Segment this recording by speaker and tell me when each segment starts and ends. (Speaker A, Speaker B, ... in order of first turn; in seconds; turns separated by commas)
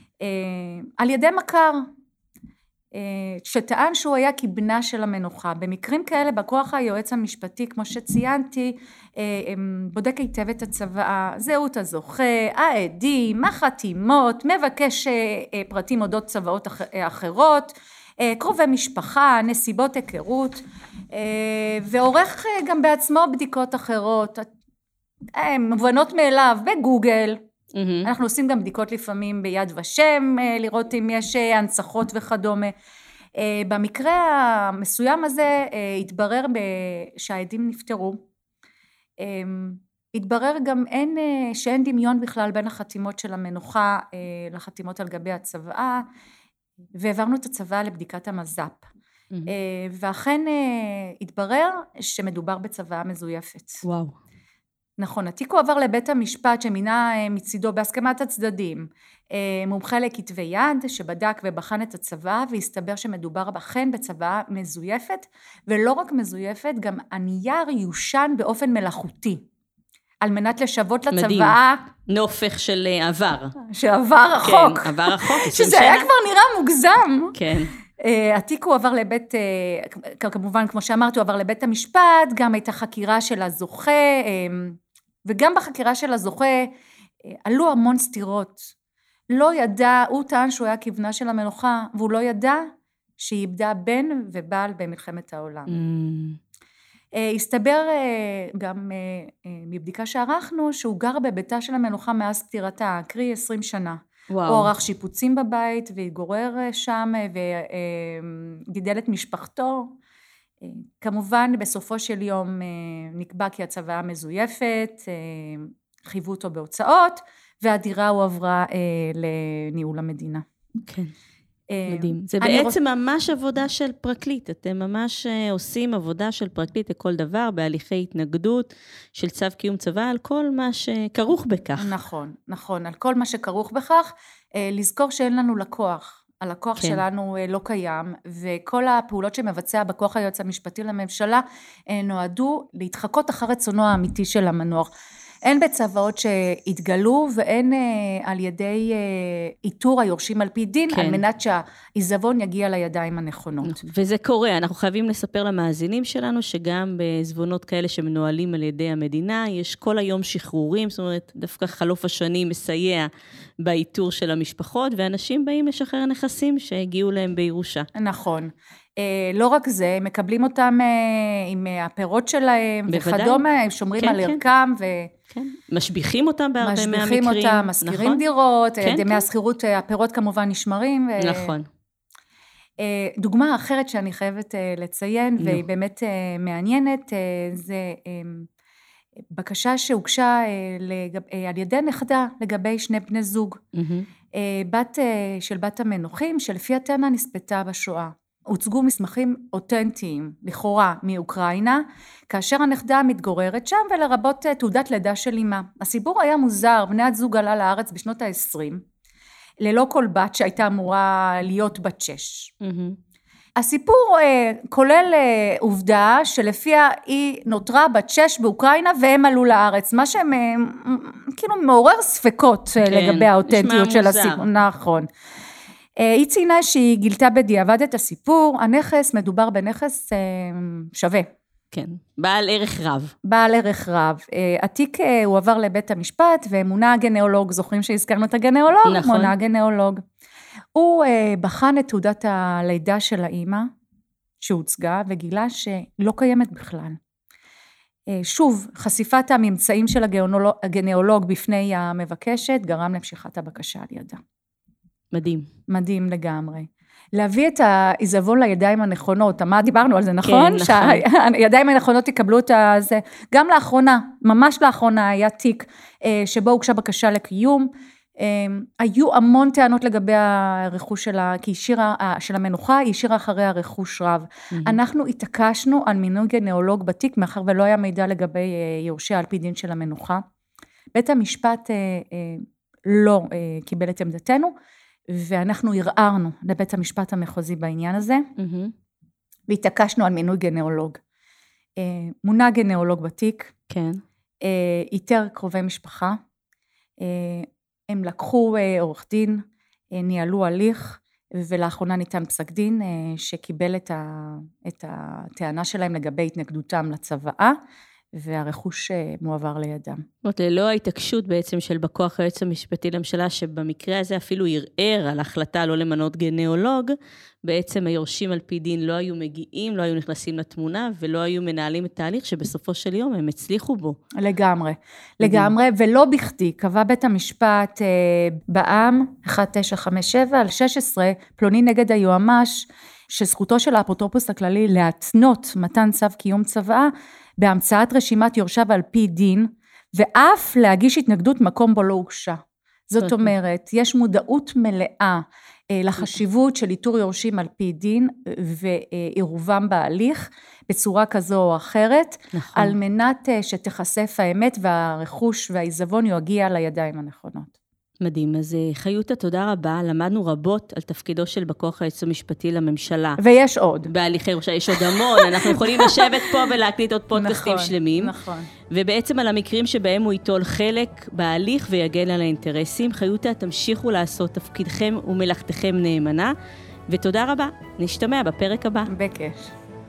Speaker A: 0.2-1.9, Speaker A: 2.9-24.5, Speaker A: 25.4-27.4, Speaker B: 27.7-28.1, Speaker A: 28.1-32.7, Speaker A: 33.4-38.2, Speaker A: 39.2-46.0, Speaker A: 47.0-48.8, Speaker A: 49.5-53.8, Speaker B: 53.9-54.1, Speaker A: 55.0-69.4, Speaker A: 70.2-71.8, Speaker B: 71.1-73.6, Speaker A: 73.6-77.3, Speaker B: 74.4-76.1, Speaker B: 77.3-77.7, Speaker A: 78.0-86.7, Speaker A: 87.5-88.7, Speaker A: 89.3-92.7, Speaker A: 93.2-95.8, Speaker B: 95.7-96.4, Speaker A: 97.2-109.9, Speaker B: 104.3-104.7, Speaker A: 110.6-120.4, Speaker B: 120.9-121.1, Speaker A: 121.7-122.8, Speaker B: 121.9-131.9, Speaker A: 131.8-144.9, Speaker A: 145.4-153.8, Speaker B: 150.9-151.2, Speaker B: 153.6-163.1, Speaker B: 163.6-167.9, Speaker A: 167.9-175.1, Speaker B: 172.9-173.4, Speaker B: 174.0-174.4, Speaker B: 175.3-178.2, Speaker A: 176.6-181.5, Speaker B: 178.8-179.2, Speaker B: 181.2-181.7, Speaker A: 182.8-188.5, Speaker A: 189.3-193.6, Speaker B: 193.7-194.1, Speaker A: 194.3-208.8, Speaker A: 209.6-212.5, Speaker B: 212.6-213.0, Speaker A: 213.6-225.1, Speaker B: 222.9-224.4, Speaker A: 226.0-231.3, Speaker B: 231.7-233.1, Speaker A: 233.2-240.0, Speaker B: 238.9-239.3, Speaker A: 240.8-243.7, Speaker A: 244.4-247.0, Speaker A: 248.1-254.2, Speaker B: 255.1-255.5, Speaker A: 255.7-267.7, Speaker B: 260.2-261.0, Speaker A: 268.2-280.2, Speaker B: 274.5-274.8, Speaker A: 280.9-284.5, Speaker A: 285.1-288.3, Speaker B: 288.4-288.7, Speaker A: 289.5-291.0, Speaker A: 291.8-293.5, Speaker B: 293.7-294.0, Speaker A: 294.4-296.2, Speaker A: 297.0-299.4, Speaker A: 299.9-307.6, Speaker A: 308.2-310.0, Speaker B: 310.2-316.9, Speaker B: 317.4-324.0, Speaker A: 324.2-342.4, Speaker B: 325.2-325.5, Speaker A: 342.9-357.5, Speaker B: 343.0-343.3, Speaker B: 352.3-352.8, Speaker B: 358.0-363.2, Speaker A: 363.2-363.9, Speaker B: 363.9-368.1, Speaker A: 364.8-366.3, Speaker A: 367.1-368.5, Speaker B: 368.7-376.3, Speaker B: 376.9-378.9, Speaker A: 378.9-379.5